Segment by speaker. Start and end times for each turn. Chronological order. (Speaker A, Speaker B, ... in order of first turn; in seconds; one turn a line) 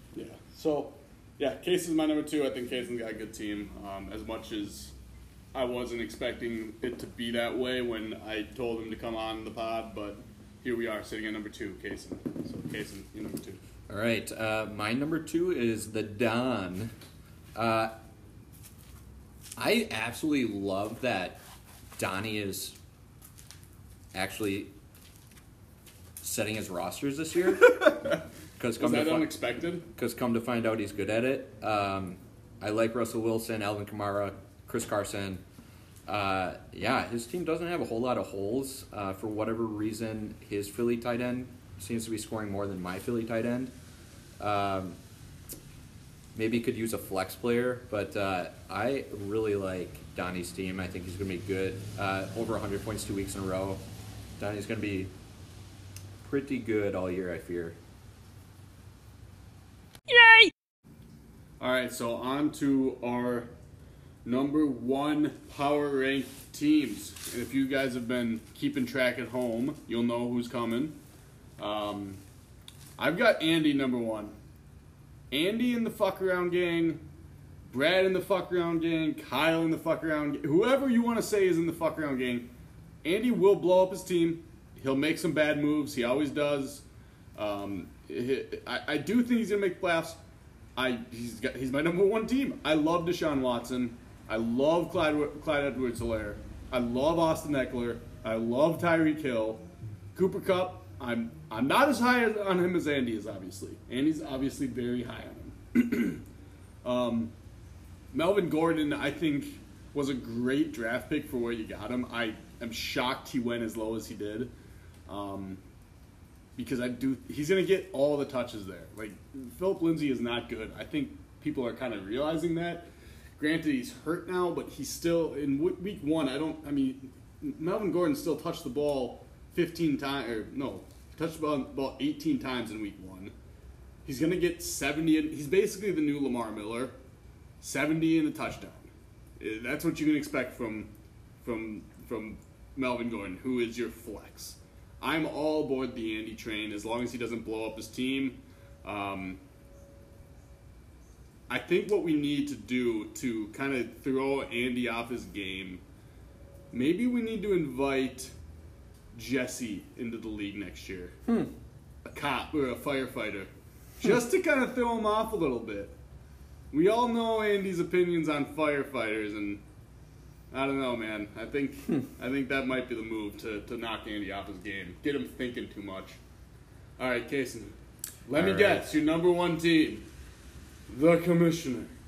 Speaker A: 0.1-4.9
Speaker A: 5.5-13.6
Speaker B: 13.9-16.9
Speaker B: 17.6-17.9
Speaker B: 19.6-21.4
Speaker B: 22.0-22.8
Speaker B: 24.1-24.7
Speaker B: 26.2-28.0
Speaker A: 27.6-28.2
Speaker B: 28.6-29.3
Speaker A: 28.8-29.9
Speaker B: 29.9-35.4
Speaker B: 36.1-43.7
Speaker B: 44.4-45.0
Speaker B: 46.3-53.8
Speaker B: 54.4-55.1
Speaker B: 56.2-57.8
Speaker A: 61.6-63.5
Speaker A: 64.2-71.0
Speaker A: 71.6-72.2
Speaker A: 73.0-74.3
Speaker A: 75.3-77.0
Speaker A: 77.7-82.5
Speaker A: 83.0-86.8
Speaker A: 87.3-90.2
Speaker A: 90.8-99.6
Speaker A: 100.1-106.2
Speaker A: 106.8-107.3
Speaker A: 108.1-114.5
Speaker A: 115.1-115.6
Speaker A: 116.5-133.3
Speaker A: 134.1-136.9
Speaker A: 137.6-140.9
Speaker A: 141.4-149.4
Speaker A: 151.5-155.8
Speaker A: 156.7-158.3
Speaker A: 159.1-161.2
Speaker A: 162.0-165.9
Speaker A: 166.7-169.6
Speaker A: 170.5-176.2
Speaker A: 177.0-177.7
Speaker A: 178.3-180.0
Speaker B: 178.3-178.9
Speaker A: 180.9-181.9